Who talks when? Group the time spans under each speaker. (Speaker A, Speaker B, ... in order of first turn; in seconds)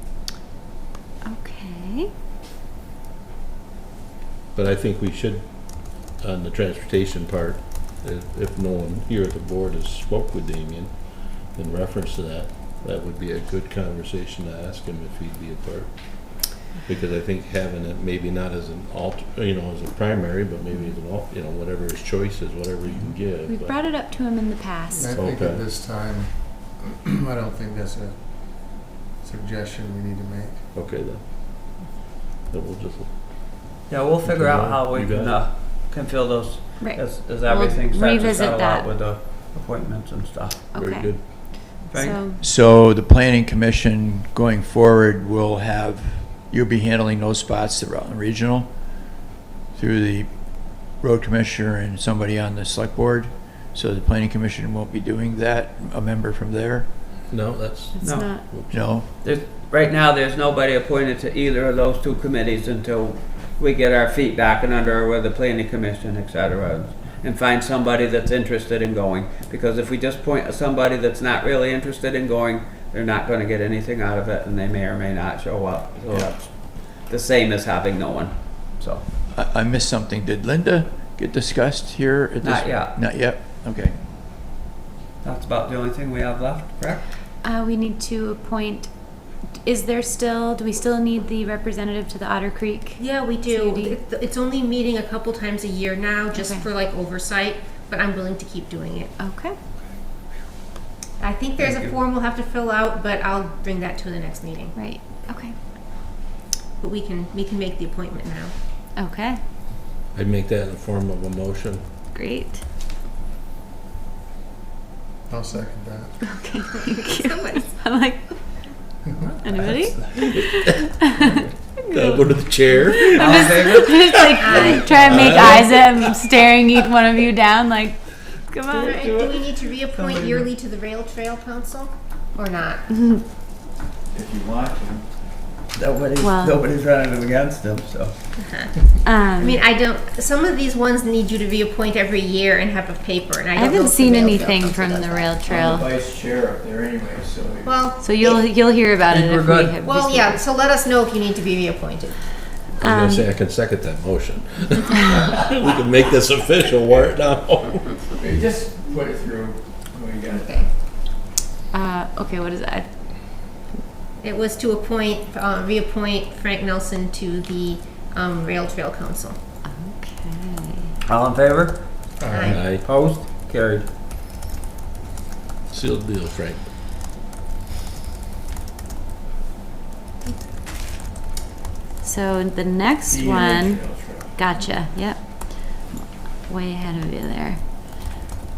Speaker A: 1.2-2.1, 23.4-25.1, 36.8-38.9, 40.7-42.4, 58.0-58.5, 87.4-94.0, 96.3-96.7, 99.2-99.6, 104.7-105.6, 108.9-109.4, 112.1-112.6, 116.2-118.9, 119.4-128.9, 132.9-133.2, 136.2-136.6, 139.0-139.6, 143.5-145.8, 148.0-150.4, 152.8-153.3, 161.7-163.7, 169.7-170.9, 182.0-187.6
Speaker B: 4.5-23.8, 25.1-25.6, 30.7-31.9, 32.5-33.1, 34.2-35.4, 40.8-41.2, 57.3-58.8, 110.1-111.8, 121.9-126.1, 152.8-158.1, 172.5-172.8, 175.7-176.7
Speaker C: 24.9-30.6, 115.3-116.2, 119.0-119.3, 172.2-172.6
Speaker D: 33.9-40.6, 41.9-42.2, 58.0-79.0, 82.4-82.9, 85.2-87.0, 101.6-101.9, 119.2-120.2, 123.1-124.0, 128.7-130.5, 135.7-138.2, 149.1-149.8, 171.1-173.8, 183.3-184.2
Speaker E: 42.4-49.0, 49.7-56.9, 58.7-59.1, 79.3-84.0, 134.1-135.1, 145.4-147.9, 158.0-160.8
Speaker F: 93.0-99.1, 101.2-104.7, 106.8-108.5, 116.7-117.8, 124.4-125.6, 128.8-132.8, 138.4-138.7, 139.3-145.5, 147.6-148.4, 149.8-152.2, 160.3-160.7, 164.2-169.4, 172.3-172.6